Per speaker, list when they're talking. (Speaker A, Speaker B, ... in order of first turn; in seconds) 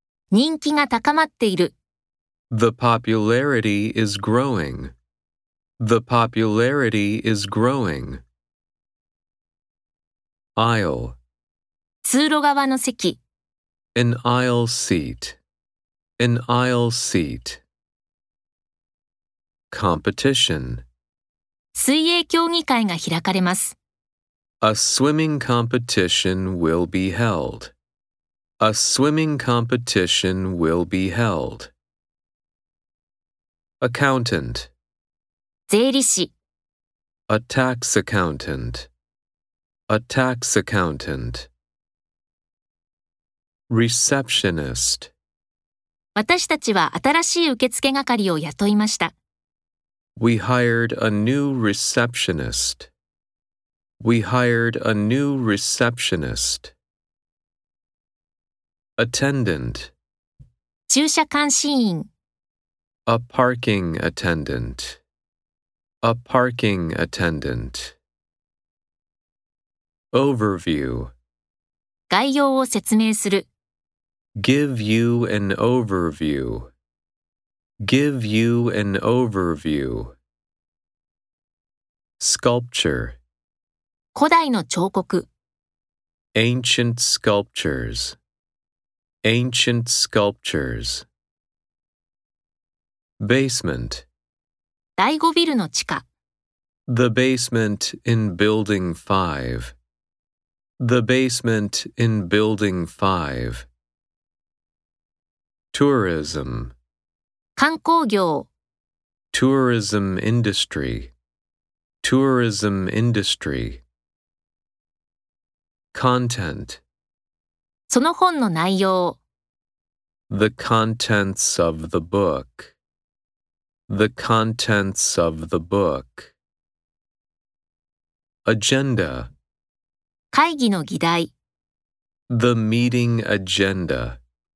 Speaker A: 0.3-1.7, 12.0-13.2, 21.7-23.8, 35.7-36.3, 46.1-49.1, 60.9-62.1, 72.1-73.5, 84.1-85.3, 95.0-96.0, 107.6-108.5, 117.9-119.2, 130.3-131.3
Speaker B: 2.5-4.9, 5.8-8.2, 10.6-11.2, 13.9-15.4, 16.2-17.6, 19.7-20.8, 24.6-27.7, 28.6-31.7, 33.8-34.7, 37.3-38.9, 39.9-41.5, 43.7-45.1, 50.2-52.9, 54.0-56.7, 59.0-59.9, 63.1-65.0, 66.0-68.0, 70.1-71.1, 74.3-76.7, 77.8-80.2, 82.2-83.2, 86.3-88.2, 89.2-91.0, 93.2-94.1, 96.9-99.7, 100.8-103.7, 105.7-106.7, 109.3-111.1, 112.0-113.8, 115.9-116.8, 120.3-122.7, 123.9-126.3, 128.4-129.3, 132.3-134.2